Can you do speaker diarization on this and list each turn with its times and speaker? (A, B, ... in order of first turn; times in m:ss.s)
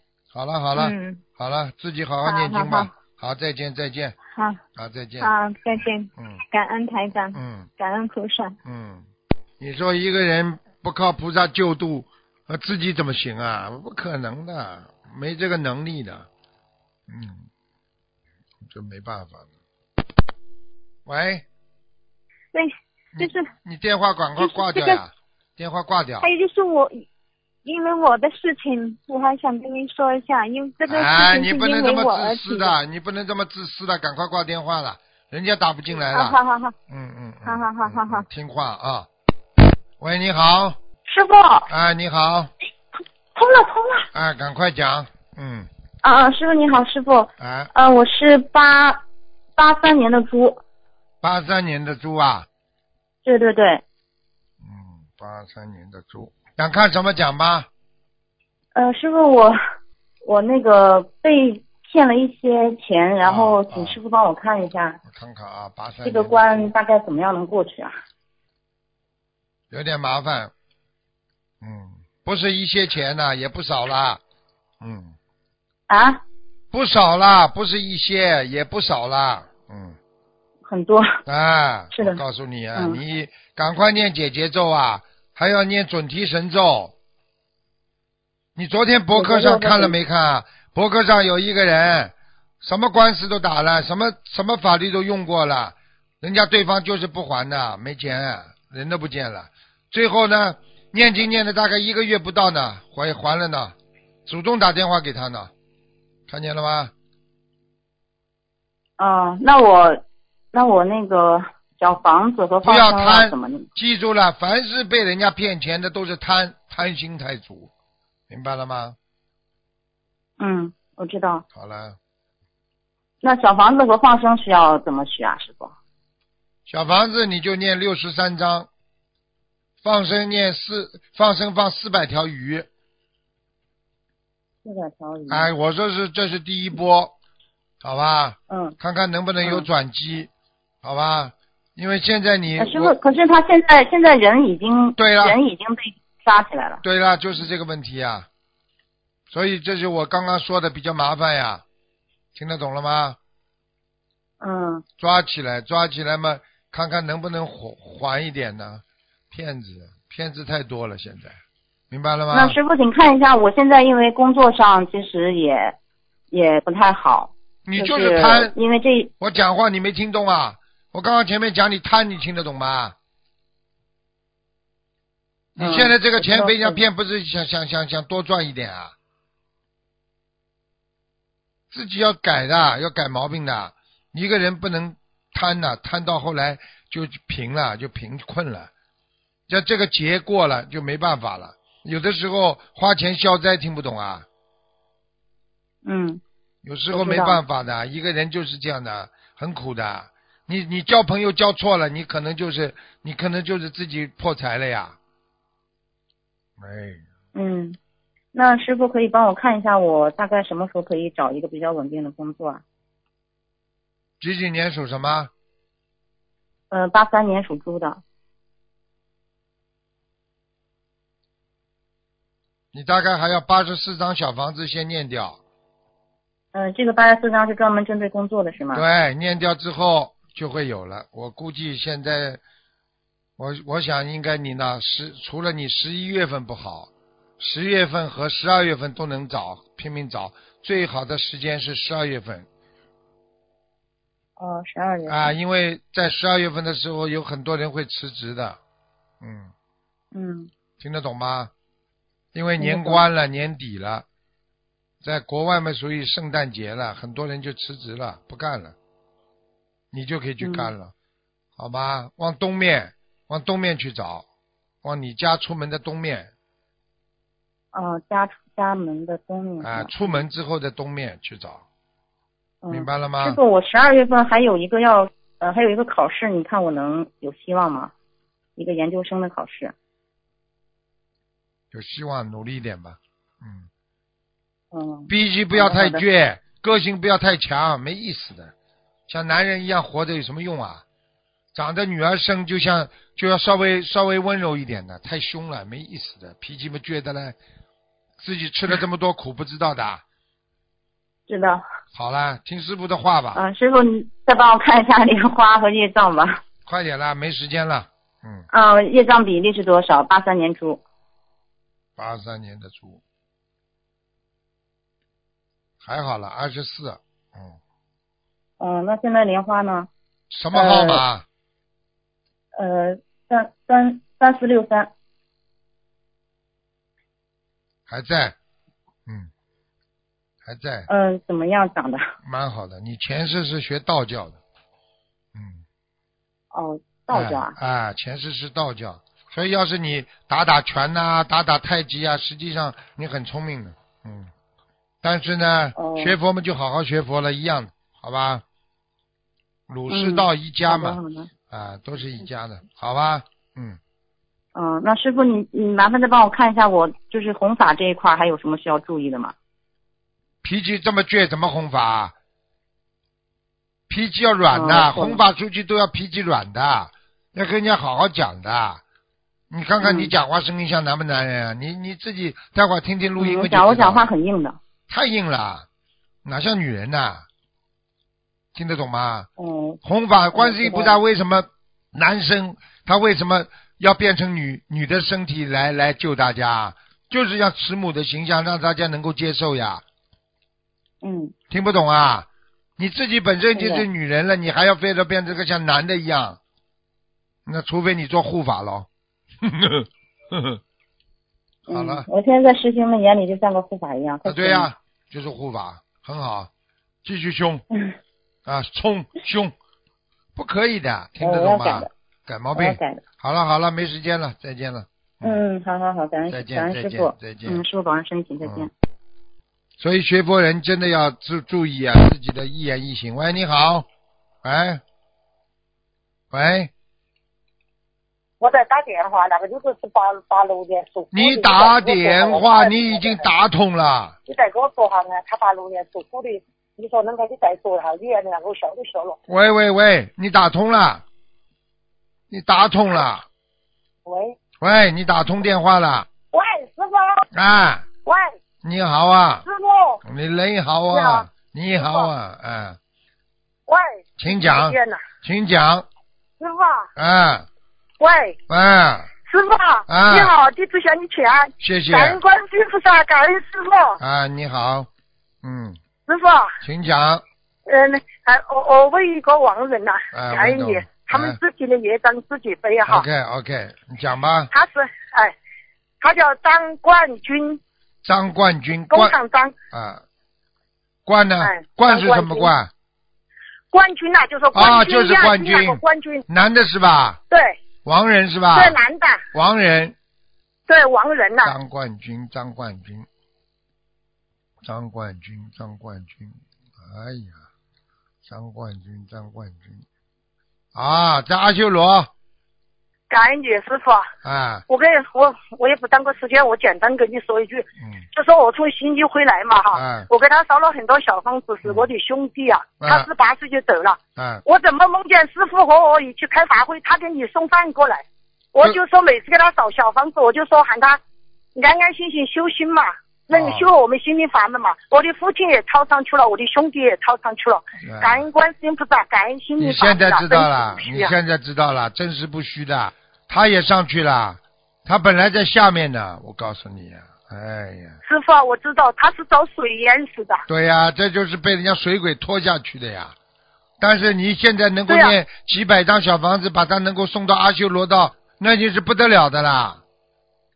0:00.3-0:04.1 A
0:00.8-0:01.2 B
0:02.2-0:02.9 B
0:04.3-0:04.6 B
0:04.8-0:06.4 A
0:05.2-0:08.5 B
0:07.3-0:07.7 A
0:08.6-0:09.0 A
0:09.6-0:16.2 A
0:17.1-0:17.4 A
0:18.7-0:19.4 A
0:21.0-0:21.4 A
0:22.5-0:23.4 B
0:23.1-0:26.3 A
0:24.4-0:25.0 B
0:26.2-0:27.0 B
0:27.6-0:32.7 B
0:30.9-0:39.1 A
0:36.2-0:36.7 B
0:37.5-0:38.2 B
0:40.0-0:40.8 A
0:41.1-0:41.6 C
0:41.7-0:42.5 A
0:43.4-0:44.0 C
0:44.1-0:45.7 A
0:46.0-0:49.0 C
0:47.4-0:47.7 A
0:49.6-0:50.6 C
0:51.2-0:52.5 A
0:53.2-0:53.8 C
0:54.6-0:57.7 A
0:58.7-0:59.5 C
1:00.2-1:05.0 C
1:03.2-1:04.0 A
1:05.0-1:06.7 A
1:06.0-1:07.9 C
1:09.7-1:10.5 A
1:11.6-1:14.2 A
1:14.8-1:15.1 A
1:15.9-1:16.2 C
1:16.7-1:20.0 A
1:20.6-1:21.1 C
1:21.3-1:26.9 A
1:21.9-1:22.2 C
1:28.6-1:43.7 A
1:29.1-1:29.9 C
1:44.2-1:45.5 A
1:46.3-1:46.9 A
1:49.0-1:50.0 C
1:50.5-1:53.7 C
1:52.6-1:57.7 A
1:58.3-1:59.0 A
2:00.4-2:01.4 C
2:01.5-2:02.0 A
2:03.2-2:05.7 C
2:06.7-2:08.7 A
2:09.8-2:12.7 A
2:14.6-2:15.4 C
2:15.3-2:17.1 A
2:17.8-2:20.3 A
2:20.8-2:22.9 A
2:22.6-2:26.8 C
2:25.0-2:25.4 A
2:26.8-2:28.2 A
2:29.3-2:31.6 A
2:32.3-2:33.2 A
2:34.4-2:34.8 C
2:35.0-2:41.4 A
2:41.9-2:42.6 A
2:42.3-2:45.7 C
2:46.3-2:49.1 C
2:47.6-2:48.5 A
2:49.2-2:52.9 A
2:55.6-2:58.9 A
2:55.6-2:56.7 C
3:01.7-3:08.7 A
3:09.5-3:14.2 A
3:15.8-3:16.2 C
3:16.6-3:25.0 A
3:16.9-3:17.4 C
3:26.6-3:27.0 A
3:27.3-3:27.8 C
3:28.3-3:32.6 C
3:34.2-3:35.3 A
3:36.7-3:38.0 C
3:42.7-3:45.4 A
3:46.5-3:48.8 C
3:48.7-3:52.4 A
3:53.4-4:02.5 A
4:04.4-4:05.1 C
4:05.1-4:08.6 A
4:09.2-4:09.5 A
4:10.1-4:10.5 C
4:10.8-4:11.5 A
4:12.3-4:14.0 A
4:12.6-4:13.0 C
4:15.0-4:18.7 A
4:19.9-4:20.9 A
4:21.6-4:24.2 A
4:24.8-4:26.3 A
4:27.7-4:30.2 C
4:28.3-4:28.7 B
4:29.6-4:31.6 A
4:32.7-4:33.4 A
4:33.2-4:37.9 C
4:38.6-4:39.7 C
4:41.7-4:43.7 A
4:44.7-4:45.1 C
4:44.7-4:45.0 B
4:45.1-4:48.5 A
4:45.6-4:46.0 C
4:49.1-4:50.8 A
4:51.5-4:57.4 A
4:58.2-5:00.0 A
5:01.3-5:01.6 C
5:01.9-5:03.4 A
5:03.4-5:06.3 C
5:06.6-5:08.5 A
5:08.5-5:10.8 C
5:12.0-5:13.0 A
5:15.8-5:17.6 A
5:18.6-5:19.9 C
5:20.3-5:21.2 A
5:20.6-5:21.0 C
5:22.6-5:24.9 C
5:23.6-5:24.1 B
5:27.9-5:28.4 A
5:30.4-5:30.9 A
5:30.9-5:32.0 C
5:32.2-5:34.4 A
5:35.3-5:35.6 A
5:36.5-5:37.5 C
5:37.1-5:44.3 A
5:45.0-5:48.4 A
5:49.7-5:51.0 A
5:49.9-5:51.3 C
5:51.5-5:53.8 A
5:54.5-5:59.3 C
6:00.4-6:02.1 A
6:03.9-6:08.8 A
6:04.5-6:05.2 C
6:09.5-6:14.1 A
6:13.2-6:14.6 C
6:14.9-6:15.6 A
6:16.2-6:17.2 A
6:18.5-6:19.3 A
6:19.4-6:19.8 C
6:19.8-6:29.8 A
6:20.4-6:20.9 C
6:31.0-6:31.3 C
6:31.5-6:32.3 A
6:32.8-6:36.4 A
6:37.4-6:38.9 A
6:39.4-6:40.6 A
6:41.7-6:42.1 A
6:41.7-6:44.7 C
6:44.2-6:46.5 A
6:47.0-6:47.6 A
6:48.4-6:49.5 A
6:50.4-6:55.4 A
6:51.2-6:51.9 C
6:55.2-6:58.7 C
6:56.3-6:57.6 A
6:58.4-6:58.7 A
6:59.8-7:03.9 A
7:04.4-7:04.8 A
7:06.3-7:06.7 A
7:08.4-7:13.2 D
7:11.1-7:14.1 A
7:14.3-7:19.2 D
7:19.3-7:21.0 A
7:22.3-7:23.2 A
7:24.0-7:24.3 D
7:24.6-7:26.1 A
7:26.3-7:27.2 D
7:27.3-7:27.9 A
7:28.6-7:29.4 A
7:29.4-7:30.0 D
7:30.0-7:32.8 A
7:30.9-7:32.1 D
7:33.7-7:35.0 D
7:34.2-7:35.8 A
7:36.4-7:36.9 D
7:37.0-7:37.5 A
7:38.0-7:38.4 D
7:38.5-7:39.1 A
7:39.3-7:44.0 D
7:39.9-7:40.3 A
7:41.6-7:42.2 A
7:44.0-7:44.9 A
7:45.4-7:45.8 A
7:46.1-7:46.5 D
7:46.6-7:47.2 A
7:47.7-7:53.0 D
7:50.1-7:51.4 A
7:52.8-7:54.5 A
7:54.5-7:55.3 D
7:56.0-7:57.6 D
7:58.0-7:59.2 A
7:58.9-7:59.5 D
7:59.7-8:00.0 A
8:01.0-8:02.7 A
8:01.4-8:02.5 D
8:03.7-8:06.2 D
8:04.5-8:07.2 A
8:07.3-8:07.6 D
8:07.8-8:08.8 A
8:08.5-8:09.2 D
8:09.3-8:09.9 A
8:10.7-8:11.5 D
8:11.4-8:13.0 A
8:14.6-8:17.4 A
8:18.2-8:19.8 A
8:20.7-8:22.1 A
8:23.1-8:24.0 D
8:24.2-8:24.6 A
8:24.7-8:41.0 D
8:29.7-8:30.1 A
8:32.8-8:33.1 A
8:34.2-8:34.4 A
8:41.5-8:51.1 D
8:43.3-8:43.6 A
8:47.8-8:48.2 A
8:49.6-8:58.0 A
8:58.0-9:00.4 D
9:00.5-9:03.1 A
9:03.8-9:09.8 A
9:04.9-9:05.2 D